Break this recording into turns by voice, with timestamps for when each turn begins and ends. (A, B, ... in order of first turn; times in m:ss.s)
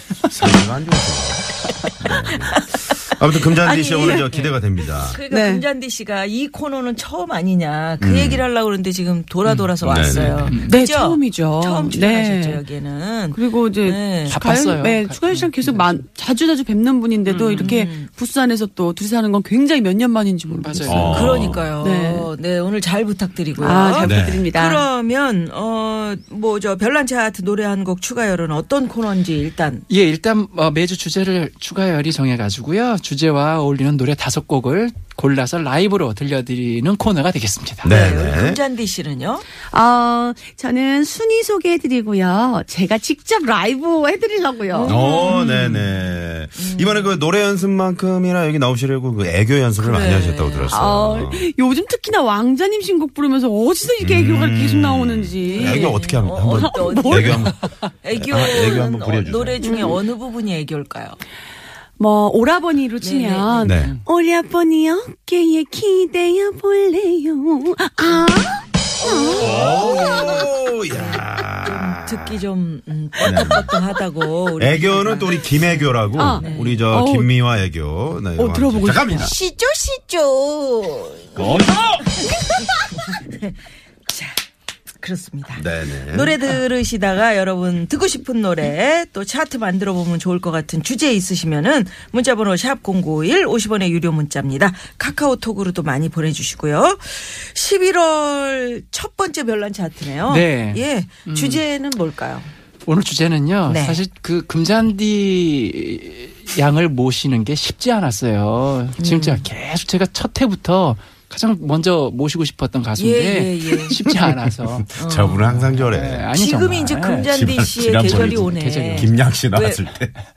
0:00.3-0:05.2 A
0:02.3-0:02.8 B
0:03.4-0:04.3 B
0:04.3-0:04.6 C
0:05.0-0:14.4 B
0:05.3-0:05.7 D
0:08.0-0:08.5 A
0:09.4-0:09.8 C
0:09.8-0:10.6 A
0:10.4-0:10.8 C
0:10.7-0:12.6 D
0:13.3-0:21.2 D
0:14.2-0:16.0 C
0:17.2-0:17.7 C
0:17.5-0:18.1 B
0:20.5-0:21.6 C
0:20.8-0:21.7 A
0:21.0-0:29.8 B
0:21.8-0:22.3 D
0:23.6-0:24.9 D
0:24.0-0:24.5 A
0:29.9-0:38.0 C
0:37.8-0:38.6 A
0:37.9-0:39.4 B
0:39.7-0:45.2 D
0:44.7-0:45.9 B
0:44.8-0:51.5 A
0:46.6-0:47.1 B
0:49.8-0:50.9 B
0:50.7-0:57.5 D
0:54.0-0:57.6 A
0:55.5-0:57.5 B
0:58.0-1:01.2 B
0:58.1-0:59.6 A
0:59.6-1:00.0 D
1:02.0-1:09.7 D
1:03.0-1:04.0 B
1:03.6-1:03.9 A
1:09.0-1:16.8 B
1:09.4-1:12.4 A
1:13.2-1:13.7 A
1:14.6-1:19.4 A
1:16.2-1:17.4 D
1:18.4-1:19.3 D
1:19.1-1:23.6 B
1:21.4-1:22.1 A
1:24.1-1:24.4 B
1:25.0-1:42.5 B
1:25.6-1:26.4 A
1:40.3-1:41.6 C
1:42.9-1:59.4 C
1:43.7-1:44.0 B
1:49.0-1:49.4 B
1:53.0-1:54.0 B
1:55.0-1:55.4 B
1:55.0-1:56.3 A
1:56.3-1:59.8 B
1:57.3-2:00.2 A